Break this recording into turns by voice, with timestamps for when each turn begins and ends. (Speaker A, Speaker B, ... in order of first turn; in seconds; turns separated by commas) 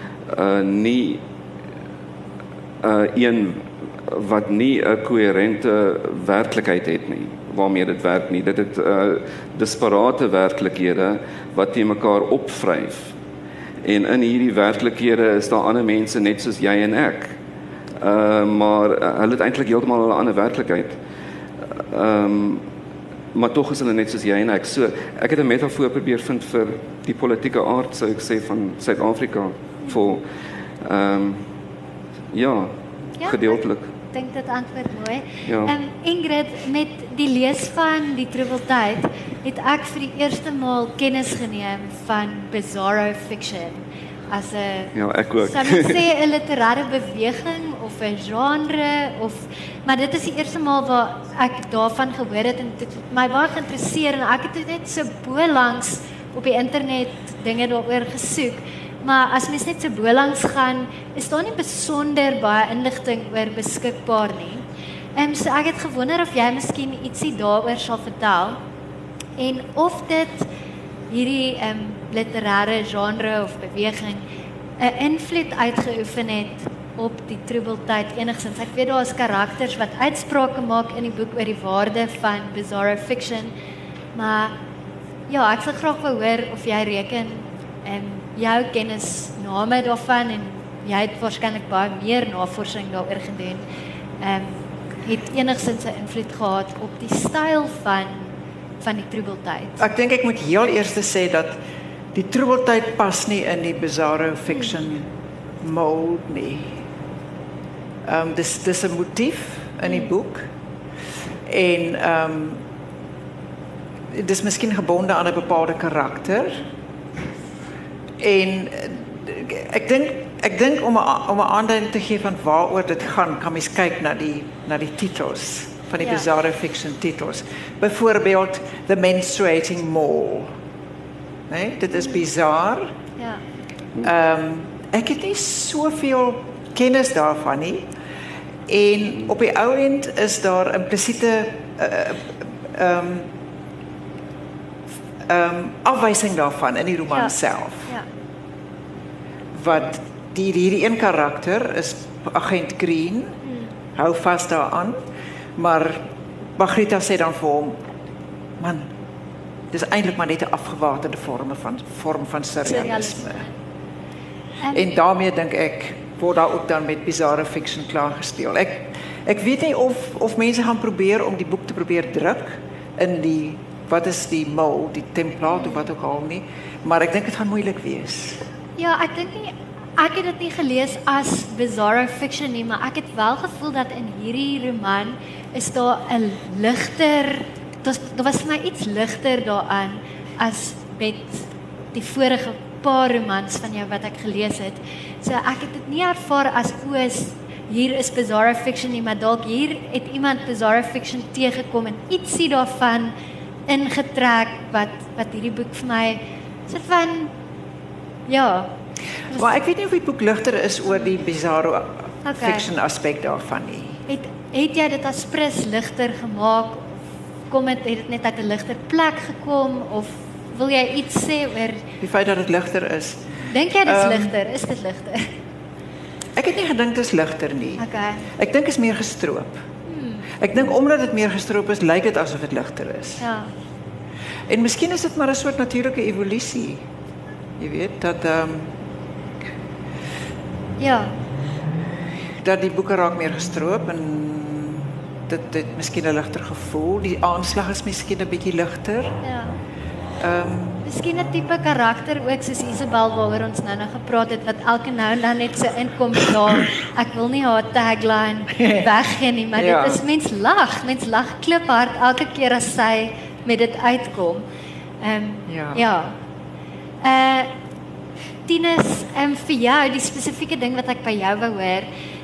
Speaker A: 0.3-1.2, Speaker A: 2.8-13.1, Speaker A: 13.8-17.3, Speaker A: 18.0-21.0, Speaker A: 21.8-22.6, Speaker A: 23.3-30.2, Speaker A: 30.8-31.4, Speaker A: 32.3-33.8, Speaker B: 33.2-33.6, Speaker B: 34.1-64.6, Speaker A: 35.5-35.7, Speaker A: 44.9-46.0, Speaker B: 65.2-68.6, Speaker B: 69.4-70.5, Speaker B: 71.1-74.2, Speaker B: 74.8-83.5, Speaker B: 84.1-84.5, Speaker B: 85.3-93.6, Speaker B: 94.2-99.8, Speaker C: 99.8-101.5, Speaker C: 102.1-105.1, Speaker C: 105.6-106.8, Speaker C: 108.1-110.5, Speaker C: 111.5-112.6, Speaker C: 114.1-116.7, Speaker C: 118.2-130.5, Speaker C: 131.5-132.9, Speaker C: 134.0-137.9, Speaker C: 138.7-143.3, Speaker C: 145.3-147.9, Speaker C: 149.5-153.4, Speaker C: 153.9-155.0, Speaker C: 155.6-156.1, Speaker C: 156.6-157.8, Speaker C: 158.6-158.9, Speaker C: 159.7-163.4, Speaker B: 162.7-163.4, Speaker B: 164.6-164.9, Speaker C: 164.7-178.4, Speaker B: 175.6-175.8, Speaker B: 178.8-203.1, Speaker B: 203.7-207.3, Speaker B: 208.3-208.7, Speaker C: 209.3-214.0, Speaker B: 212.2-212.7, Speaker B: 214.1-221.8, Speaker C: 222.0-223.3, Speaker B: 223.5-225.3, Speaker C: 223.8-224.3, Speaker C: 226.3-227.8, Speaker B: 227.8-228.2, Speaker C: 228.3-229.6, Speaker B: 229.9-230.3, Speaker C: 230.4-233.2, Speaker B: 233.2-233.5, Speaker C: 234.5-236.8, Speaker C: 237.6-238.7, Speaker B: 240.8-241.1, Speaker C: 242.4-249.2, Speaker B: 249.2-249.5, Speaker C: 250.2-250.8, Speaker B: 250.8-264.4, Speaker C: 259.6-260.0, Speaker B: 265.0-266.1, Speaker C: 265.5-265.8, Speaker B: 267.0-267.5, Speaker B: 268.5-271.9